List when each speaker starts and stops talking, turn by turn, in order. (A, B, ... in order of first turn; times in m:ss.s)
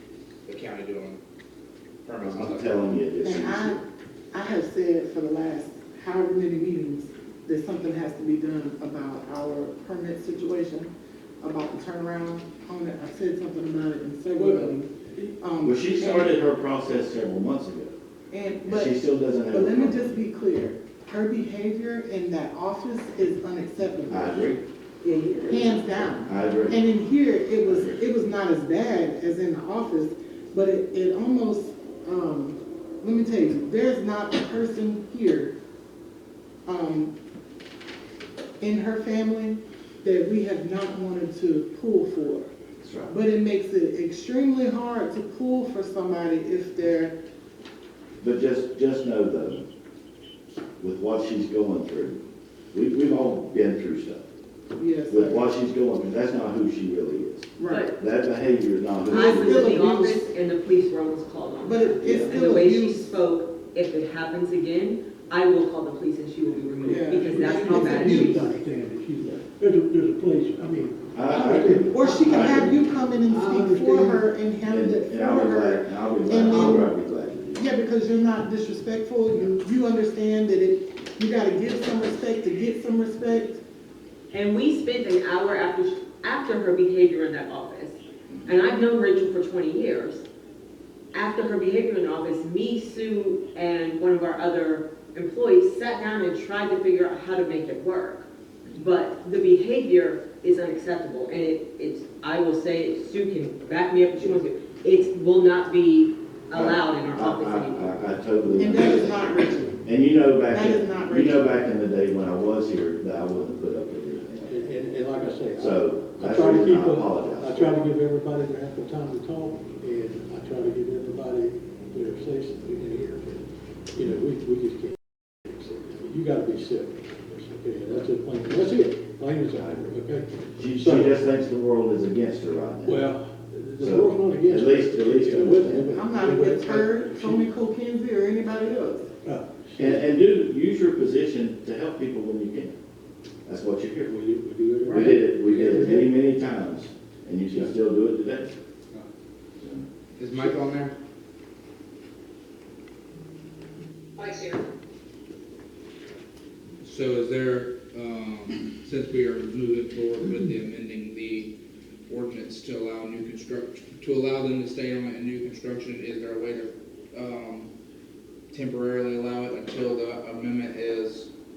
0:00.4-0:01.2 A
0:02.0-0:02.8 A
0:02.2-0:03.8 B
0:03.2-0:03.8 C
0:04.3-0:16.4 C
0:14.3-0:15.2 D
0:15.6-0:17.9 B
0:18.3-0:19.0 C
0:18.6-0:20.1 B
0:19.5-0:24.5 C
0:24.1-0:24.6 B
0:25.0-0:26.0 E
0:25.5-0:35.5 C
0:26.2-0:26.8 B
0:27.6-0:28.0 B
0:36.6-0:37.1 C
0:38.6-0:42.5 C
0:42.8-0:43.1 B
0:43.1-0:47.1 C
0:48.2-0:49.6 B
0:50.8-0:52.2 B
0:52.7-0:54.2 B
0:54.8-0:55.4 C
0:55.1-0:59.8 B
0:57.6-0:57.9 C
0:57.6-0:57.9 E
0:59.1-1:00.3 C
0:59.1-1:08.5 E
1:01.6-1:03.1 C
1:02.0-1:02.4 B
1:06.8-1:08.4 C
1:06.9-1:12.4 D
1:11.1-1:12.8 B
1:11.8-1:16.9 C
1:12.0-1:12.7 E
1:13.3-1:14.2 E
1:14.6-1:17.6 B
1:16.5-1:16.8 E
1:17.5-1:23.6 C
1:24.3-1:30.2 E
1:31.1-1:48.0 E
1:46.5-1:49.3 B
1:48.6-1:49.8 C
1:49.8-1:54.7 B
1:50.5-1:51.5 C
1:54.5-2:11.1 D
1:55.6-1:57.7 B
2:09.6-2:10.0 B
2:10.5-2:13.0 B
2:12.8-2:17.5 D
2:13.8-2:16.0 B
2:15.9-2:19.1 C
2:19.2-2:20.0 D
2:19.8-2:22.7 B
2:23.4-2:24.2 B
2:24.1-2:26.1 D
2:24.8-2:28.5 B
2:29.6-2:29.8 B
2:30.2-2:30.9 A
2:36.8-2:41.5 A
2:42.1-2:47.7 A
2:48.5-2:51.3 A